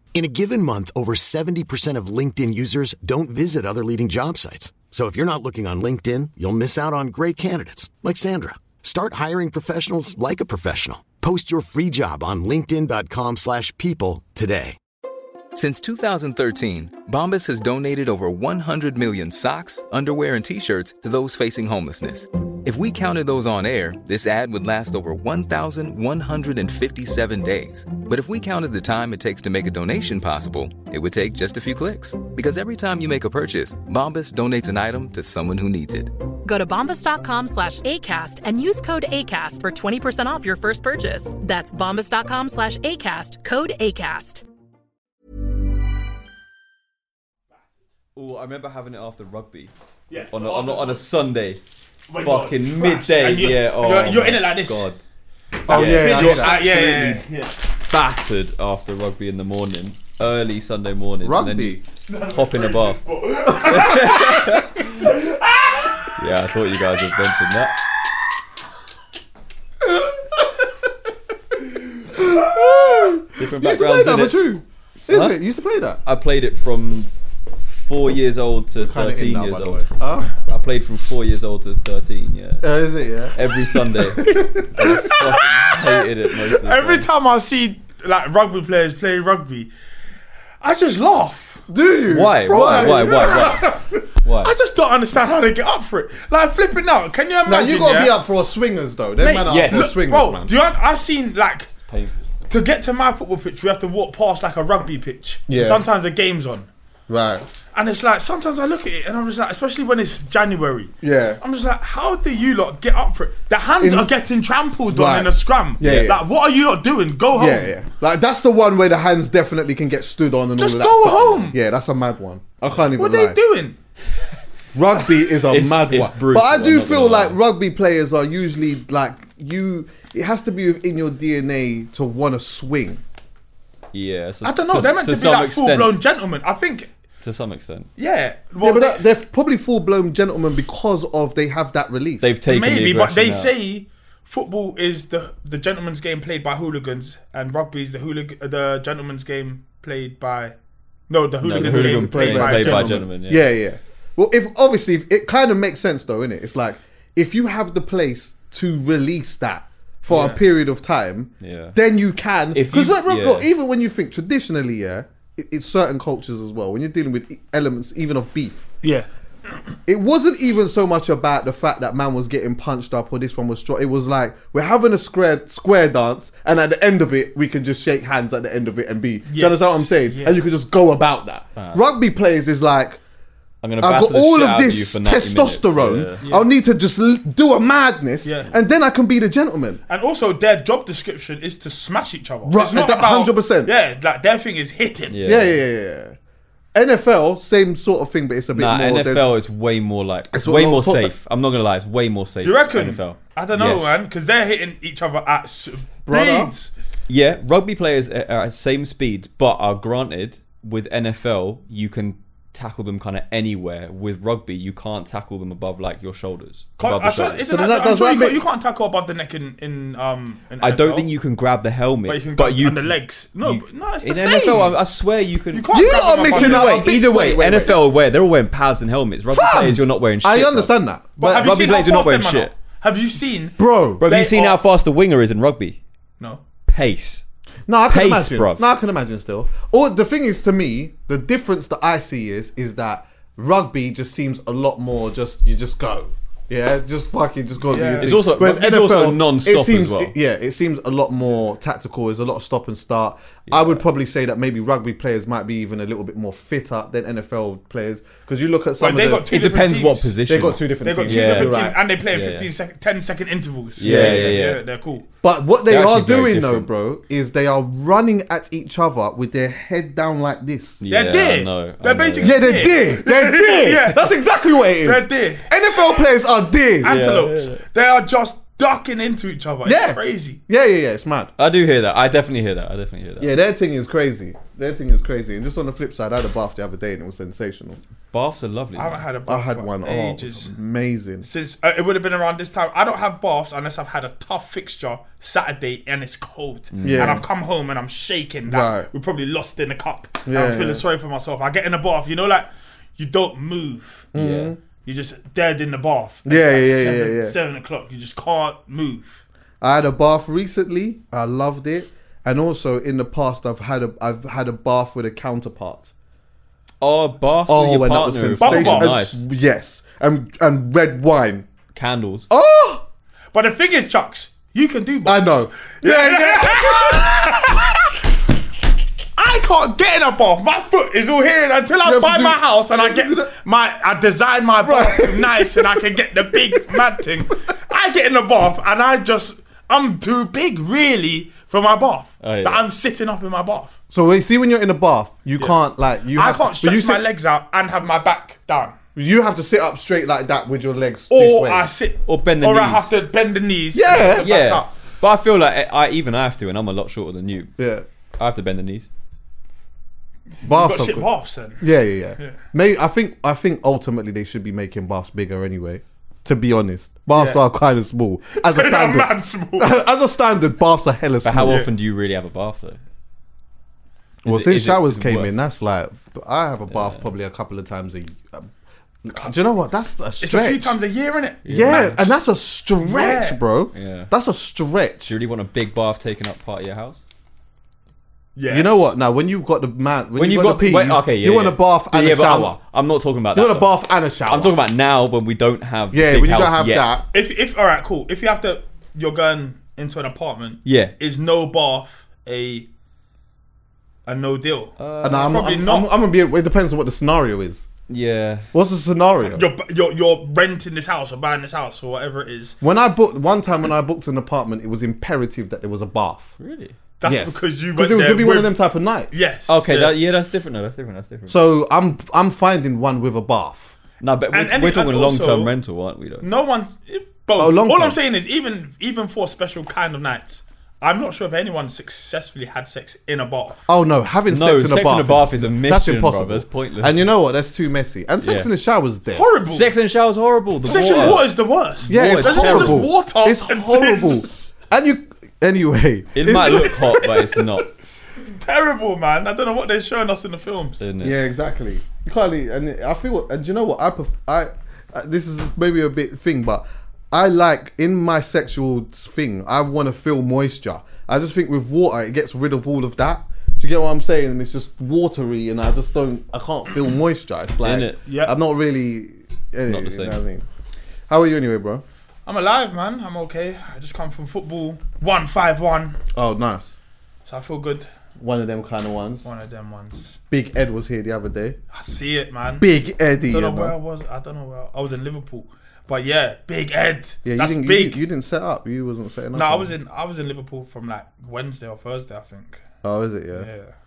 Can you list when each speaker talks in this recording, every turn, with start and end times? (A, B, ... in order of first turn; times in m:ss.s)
0:00.1-0:14.8 A
0:15.5-0:36.1 B
0:36.4-0:44.4 C
0:48.1-0:49.7 D
0:50.1-0:51.0 E
0:50.3-0:51.6 D
0:52.1-0:54.9 E
0:52.2-0:55.0 D
0:55.6-0:57.0 F
0:55.7-0:57.6 E
0:55.7-0:57.2 D
0:57.9-1:05.1 D
1:01.2-1:01.8 F
1:02.1-1:05.9 E
1:06.2-1:07.8 D
1:10.0-1:10.5 F
1:12.0-1:16.0 F
1:13.4-1:14.4 D
1:15.1-1:15.4 D
1:16.0-1:22.6 D
1:18.8-1:20.3 F
1:22.6-1:23.4 F
1:23.3-1:27.1 D
1:24.2-1:24.9 F
1:25.0-1:29.7 E
1:30.6-1:31.6 E
1:31.7-1:33.8 F
1:32.1-1:34.5 D
1:32.6-1:33.7 E
1:34.4-1:38.1 E
1:37.4-1:40.5 F
1:39.2-1:41.7 E
1:39.4-1:39.9 D
1:41.9-1:42.2 D
1:42.5-1:46.7 E
1:45.5-1:45.8 F
1:47.1-1:47.5 F
1:47.7-1:57.8 E
1:51.0-1:51.4 F
1:53.8-1:54.1 F
1:54.9-1:56.2 F
1:57.3-2:03.4 F
2:00.6-2:01.6 E
2:03.0-2:03.8 E
2:04.7-2:13.0 F
2:05.5-2:07.4 D
2:13.9-2:15.9 D
2:14.4-2:16.9 E
2:17.2-2:17.9 D
2:18.0-2:19.0 E
2:18.6-2:22.3 F
2:22.2-2:23.5 D
2:22.4-2:30.5 E
2:31.1-2:33.0 E
2:31.4-2:33.5 D
2:31.6-2:48.7 F
2:40.1-2:40.4 E
2:41.4-2:41.8 D
2:42.5-2:43.5 D
2:48.8-2:49.1 E
2:49.9-3:03.0 F
2:59.3-3:00.4 E
3:01.6-3:01.8 D
3:03.6-3:06.2 D
3:03.8-3:09.8 F
3:06.2-3:06.5 E
3:08.2-3:08.5 E
3:09.9-3:15.2 E
3:12.4-3:13.7 F
3:15.1-3:15.6 D
3:15.2-3:16.2 F
3:16.7-3:19.4 F
3:18.5-3:24.0 D
3:20.3-3:21.1 F
3:22.4-3:26.7 E
3:26.0-3:26.5 F
3:27.1-3:37.5 D
3:36.8-3:41.1 E
3:37.5-3:38.4 F
3:40.6-3:42.9 D
3:42.0-3:44.8 E
3:43.4-3:52.5 D
3:45.5-3:47.0 E
3:45.7-3:47.8 F
3:49.3-3:51.4 F
3:51.2-3:54.6 E
3:53.6-3:54.0 F
3:54.0-3:55.8 D
3:56.7-3:57.2 D
3:57.7-4:19.3 F
3:57.9-3:58.6 D
4:07.7-4:08.4 E
4:08.0-4:10.1 D
4:13.5-4:13.8 D
4:18.8-4:20.2 E
4:19.3-4:22.5 D
4:20.3-4:21.8 F
4:20.8-4:25.0 E
4:23.8-4:24.6 D
4:23.8-4:24.5 F
4:25.2-4:30.8 F
4:25.7-4:26.7 D
4:30.8-4:32.7 D
4:30.9-4:36.0 E
4:32.2-4:37.0 F
4:36.8-4:40.4 E
4:36.8-4:37.6 D
4:39.6-4:41.3 F
4:41.4-4:43.3 D
4:43.2-4:47.8 F
4:48.1-4:49.0 D
4:48.8-4:50.5 E
4:49.3-4:51.3 F
4:51.2-5:04.1 E
4:56.7-4:57.2 D
4:56.8-4:57.2 F
4:58.5-4:58.9 F
5:00.2-5:00.8 F
5:04.1-5:04.6 F
5:04.1-5:04.5 D
5:04.8-5:09.2 E
5:06.2-5:07.4 F
5:09.6-5:15.9 F
5:16.8-5:19.2 D
5:17.5-5:21.5 F
5:18.4-5:18.9 E
5:21.7-5:22.3 D
5:22.3-5:22.8 F
5:23.3-5:27.9 E
5:25.0-5:27.6 F
5:29.2-5:43.7 E
5:31.8-5:33.3 F
5:34.6-5:35.8 F
5:36.3-5:36.8 F
5:42.2-5:42.6 D
5:43.9-5:47.0 F
5:46.1-5:48.8 E
5:49.0-5:51.7 F
5:51.1-5:54.7 E
5:52.0-5:52.9 D
5:53.7-5:54.2 F
5:54.1-5:57.6 D
5:57.6-5:57.8 F
5:58.2-5:58.9 D
6:00.4-6:01.6 E
6:00.4-6:11.6 F
6:07.1-6:07.4 E
6:08.3-6:09.7 E
6:11.2-6:12.8 D
6:11.4-6:11.7 E
6:14.2-6:15.3 D
6:14.2-6:18.5 F
6:16.7-6:17.0 D
6:19.0-6:20.8 F
6:20.2-6:22.1 E
6:21.4-6:22.1 D
6:21.5-6:25.1 F
6:22.8-6:23.4 E
6:23.7-6:24.1 D
6:25.1-6:27.0 D
6:28.4-6:28.9 E
6:28.5-6:32.6 F
6:30.2-6:33.7 D
6:33.3-6:34.6 F
6:34.2-6:37.0 D
6:35.9-6:37.0 F
6:37.1-6:42.7 E
6:40.6-6:40.9 D
6:44.0-6:45.9 E
6:44.8-6:45.4 D
6:45.0-6:47.7 F
6:47.9-6:48.5 D
6:48.5-6:49.5 F
6:49.2-6:52.6 E
6:52.6-6:56.3 F
6:56.4-6:56.8 D
6:57.0-6:58.6 E
6:57.0-6:59.1 F
6:59.1-7:00.0 E
6:59.5-7:01.4 D
7:01.3-7:03.7 F
7:04.0-7:06.3 D
7:04.3-7:05.5 E
7:06.2-7:13.6 E
7:07.4-7:08.0 F
7:13.7-7:19.3 F
7:14.3-7:17.1 D
7:18.2-7:18.5 D
7:19.1-7:19.7 E
7:19.5-7:22.9 D
7:20.6-7:24.3 E
7:20.7-7:21.2 F
7:21.8-7:26.8 F
7:26.1-7:27.7 D
7:26.3-7:30.8 E
7:30.8-7:31.2 D
7:31.0-7:50.5 F
7:47.6-7:48.0 D
7:48.0-7:48.3 E
7:49.6-7:50.2 D
7:51.1-7:51.8 F
7:52.2-7:56.0 E
7:56.1-7:56.8 F
7:57.2-7:57.9 E
7:58.2-7:59.3 F
7:59.2-8:00.2 E
8:00.3-8:01.6 F
8:01.7-8:02.7 E
8:02.6-8:03.7 F
8:03.3-8:08.0 E
8:07.2-8:09.7 F
8:09.3-8:12.6 E
8:12.8-8:13.5 F
8:13.3-8:13.7 E